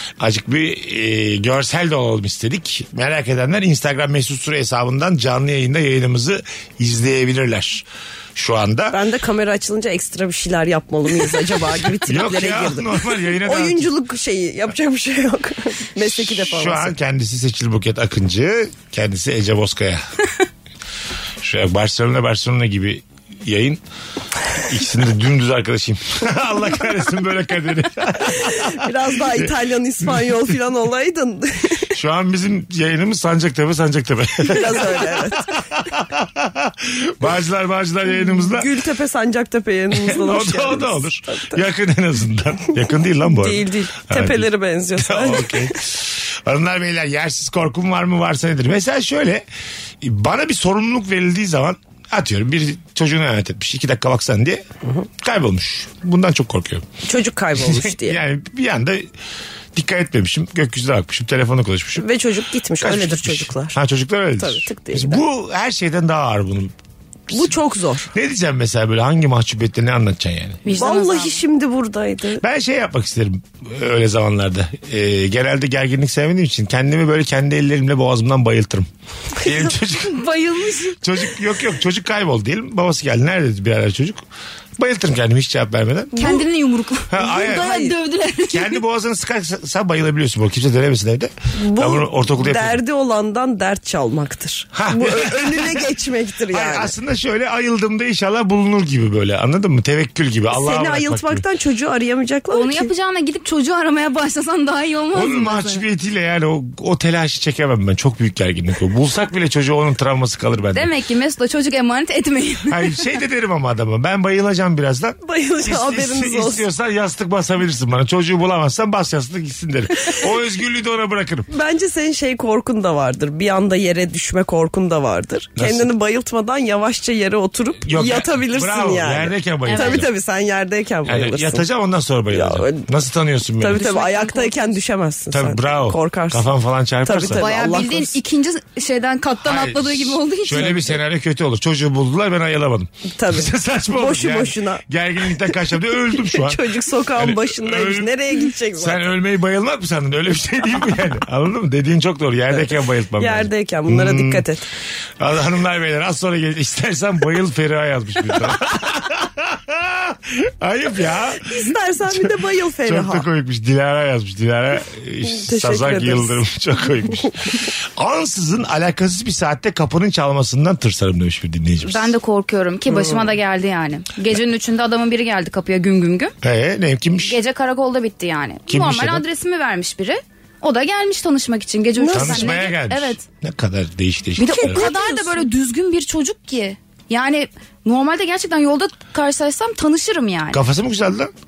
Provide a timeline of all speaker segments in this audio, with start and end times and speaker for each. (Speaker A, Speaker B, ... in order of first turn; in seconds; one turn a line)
Speaker A: 0.2-9.0
Speaker B: 8.9-16.9
Speaker A: 12.1-13.9
Speaker A: 16.0-20.1
Speaker A: 21.4-23.8
Speaker A: 24.6-29.5
Speaker B: 28.4-31.9
Speaker A: 30.1-30.4
Speaker A: 31.9-38.7
Speaker B: 34.5-35.5
Speaker B: 38.3-41.6
Speaker A: 39.9-49.5
Speaker B: 43.3-45.8
Speaker A: 50.0-54.6
Speaker A: 55.2-56.9
Speaker B: 57.0-58.2
Speaker A: 57.6-59.1
Speaker A: 59.8-62.1
Speaker B: 62.0-63.8
Speaker A: 62.8-66.7
Speaker B: 64.4-65.2
Speaker B: 67.3-68.1
Speaker A: 68.1-70.6
Speaker C: 70.6-71.4
Speaker B: 70.8-72.4
Speaker A: 72.4-78.9
Speaker A: 79.4-80.2
Speaker C: 80.1-81.0
Speaker A: 81.0-84.2
Speaker A: 84.8-86.4
Speaker C: 86.2-88.8
Speaker A: 87.1-87.8
Speaker B: 87.4-87.9
Speaker A: 88.5-92.8
Speaker B: 91.6-96.9
Speaker A: 94.7-95.9
Speaker A: 96.5-101.4
Speaker B: 100.5-102.9
Speaker C: 102.5-105.8
Speaker A: 105.1-110.9
Speaker C: 110.7-113.0
Speaker A: 112.7-121.5
Speaker B: 115.2-116.7
Speaker B: 121.5-131.6
Speaker A: 125.6-125.9
Speaker A: 127.8-130.1
Speaker C: 129.7-130.0
Speaker A: 131.1-133.8
Speaker B: 132.3-132.9
Speaker B: 133.6-136.5
Speaker C: 133.7-134.8
Speaker A: 135.3-137.5
Speaker B: 137.0-138.1
Speaker C: 137.3-140.9
Speaker A: 139.4-148.2
Speaker B: 143.2-144.8
Speaker B: 146.1-149.1
Speaker A: 148.7-154.4
Speaker B: 153.2-154.6
Speaker A: 155.2-162.3
Speaker B: 161.4-163.3
Speaker A: 162.8-172.1
Speaker B: 165.2-166.4
Speaker C: 171.8-176.3
Speaker B: 172.9-173.2
Speaker A: 176.4-177.4
Speaker C: 177.2-183.2
Speaker A: 178.7-179.2
Speaker B: 182.0-182.5
Speaker A: 182.1-184.9
Speaker C: 184.4-190.6
Speaker B: 184.4-185.4
Speaker A: 190.5-191.3